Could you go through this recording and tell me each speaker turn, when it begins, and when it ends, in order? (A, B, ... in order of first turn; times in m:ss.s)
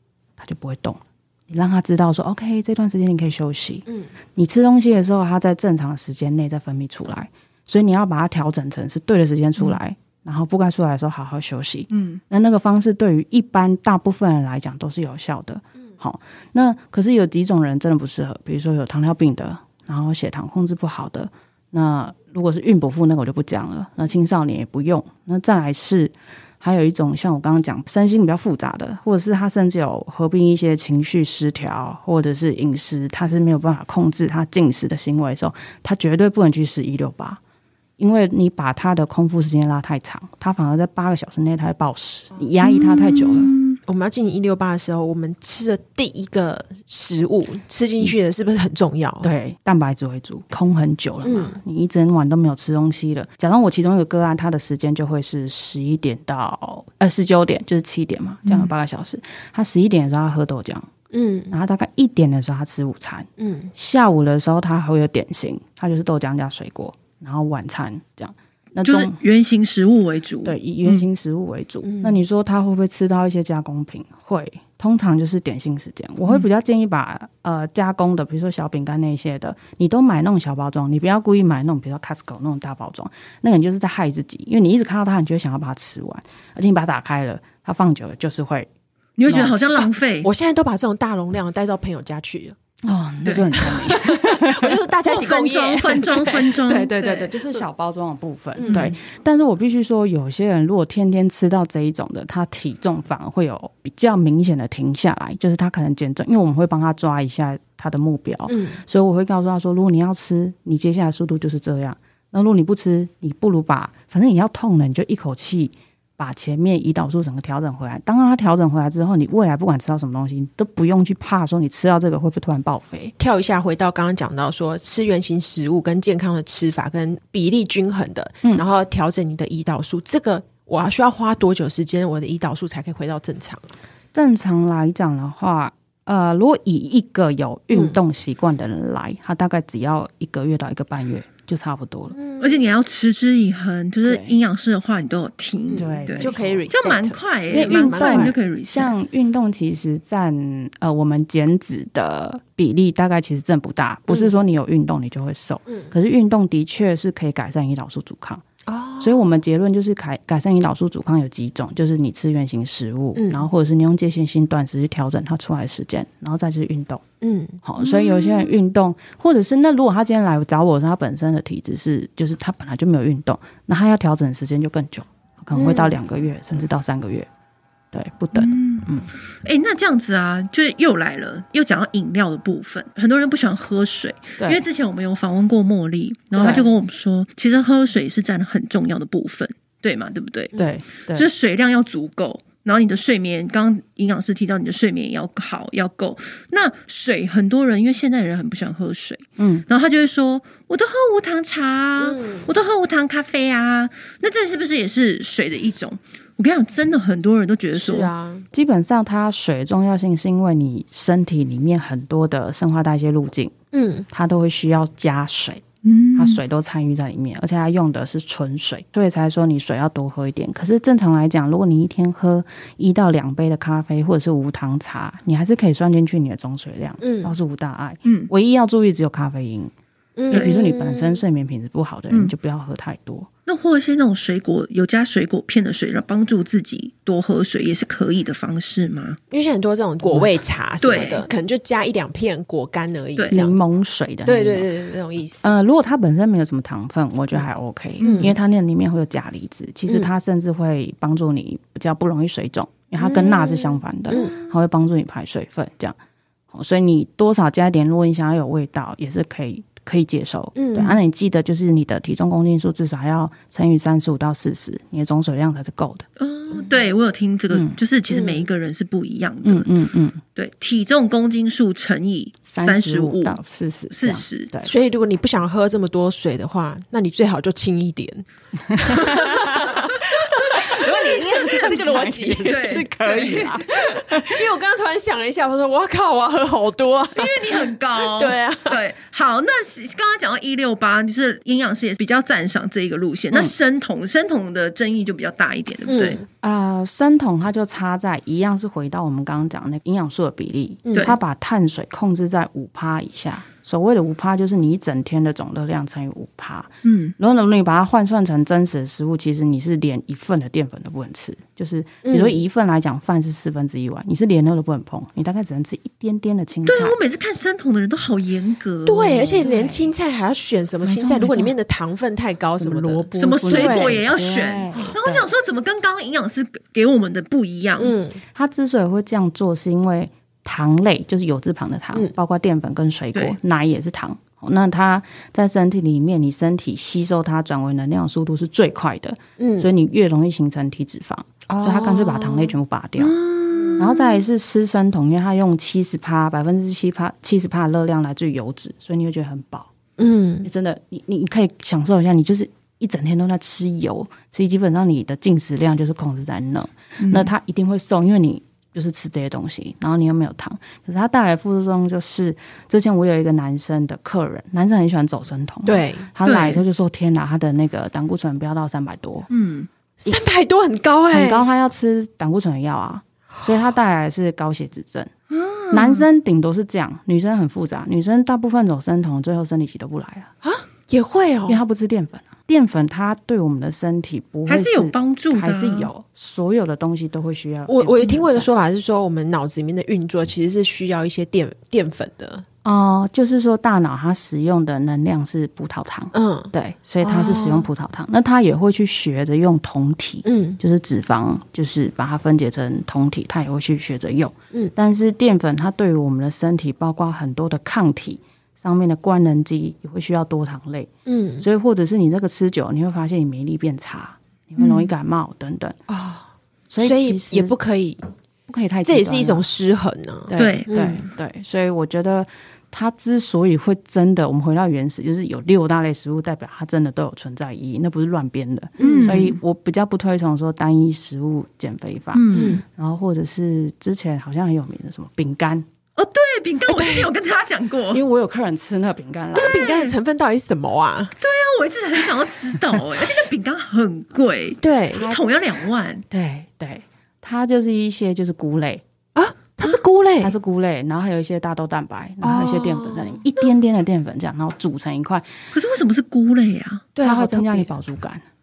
0:00.4-0:37.4 A
0:11.9-0:12.2 B
0:38.0-0:43.6 A
0:42.6-0:43.8 B
0:43.8-0:49.3 C
0:49.2-1:00.9 A
0:51.2-0:51.6 C
1:01.1-1:01.5 C
1:01.5-1:09.2 A
1:03.4-1:03.7 C
1:08.8-1:11.0 B
1:10.4-1:28.7 A
1:11.8-1:12.2 C
1:29.2-1:30.3 B
1:29.2-1:29.9 A
1:30.2-1:32.6 C
1:32.8-1:34.8 A
1:33.2-1:33.5 B
1:33.5-1:36.6 C
1:35.0-1:37.4 B
1:36.6-2:03.1 A
1:38.6-1:39.0 C
1:48.5-1:48.8 C
2:03.2-2:13.7 C
2:14.1-2:22.2 A
2:17.7-2:18.0 C
2:22.1-2:22.6 C
2:22.4-2:28.9 B
2:24.0-2:24.3 A
2:25.7-2:26.6 A
2:25.7-2:28.4 C
2:27.5-2:38.4 A
2:35.7-2:35.9 C
2:38.7-2:39.2 C
2:39.0-2:47.0 A
2:43.1-2:43.4 C
2:47.2-2:48.0 C
2:47.6-2:57.3 A
2:55.5-2:55.9 C
2:57.9-2:59.1 A
2:58.3-2:58.9 B
2:59.4-3:28.1 B
3:06.3-3:06.7 A
3:10.6-3:11.3 A
3:19.4-3:19.6 A
3:22.0-3:22.5 C
3:27.7-3:28.5 C
3:28.5-3:33.5 A
3:33.7-3:34.1 C
3:34.1-3:35.6 A
3:35.8-3:36.4 B
3:36.1-3:49.7 A
3:47.0-3:47.3 C
3:48.0-3:48.3 B
3:50.2-3:51.2 C
3:50.3-3:53.3 A
3:53.5-3:59.2 B
3:59.3-4:03.6 C
4:00.8-4:01.3 B
4:03.3-4:04.7 A
4:04.2-4:05.5 C
4:05.4-4:16.0 A
4:08.0-4:08.4 C
4:13.0-4:14.4 C
4:16.5-4:26.0 A
4:20.5-4:21.0 C
4:26.2-4:29.7 B
4:27.5-4:27.8 A
4:28.1-4:28.4 C
4:29.4-4:30.2 A
4:30.4-4:33.4 B
4:32.5-4:34.7 A
4:33.9-4:34.5 B
4:34.6-4:48.8 C
4:38.7-4:44.5 A
4:41.3-4:43.6 B
4:47.2-4:56.2 B
4:55.8-4:56.2 C
4:56.4-5:17.0 A
5:00.8-5:01.2 C
5:06.8-5:07.1 B
5:12.0-5:12.4 C
5:16.6-5:19.3 B
5:18.8-5:24.0 C
5:19.1-5:19.9 A
5:20.8-5:21.5 A
5:22.6-5:25.3 A
5:23.2-5:28.0 B
5:27.8-5:28.2 C
5:28.3-5:43.2 A
5:39.4-5:39.7 C
5:41.5-5:42.5 C
5:43.0-5:43.8 B
5:43.5-5:43.8 C
5:43.8-5:49.7 A
5:50.0-5:50.5 C
5:50.4-6:09.3 A
5:57.0-5:57.3 B
6:05.6-6:06.1 C
6:06.2-6:06.6 B
6:09.3-6:09.7 B
6:10.0-6:11.4 C
6:11.1-6:15.1 A
6:15.3-6:16.0 B
6:15.7-6:20.3 A
6:20.4-6:21.6 C
6:21.5-6:28.5 A
6:24.5-6:25.9 B
6:27.7-6:32.4 C
6:32.6-6:55.8 A
6:36.1-6:37.7 C
6:40.2-6:40.6 C
6:51.0-6:51.4 C
6:55.9-6:56.3 C
6:56.7-6:57.6 A
6:56.8-6:58.0 C
6:58.5-6:59.5 A
6:58.8-7:01.0 C
7:00.3-7:15.6 A
7:00.3-7:00.7 B
7:08.8-7:09.2 C
7:08.8-7:09.4 B
7:12.1-7:12.6 B
7:12.3-7:12.6 C
7:16.0-7:18.0 B
7:16.7-7:17.1 C
7:17.9-7:19.7 A
7:19.3-7:21.1 C
7:19.5-7:19.9 B
7:21.2-7:26.0 B
7:24.6-7:25.1 C
7:25.0-7:25.4 A
7:26.1-7:28.8 A
7:29.1-7:30.3 C
7:30.2-7:35.3 A
7:32.2-7:33.3 C
7:35.5-7:36.9 B
7:36.9-7:37.7 C
7:37.0-7:38.2 A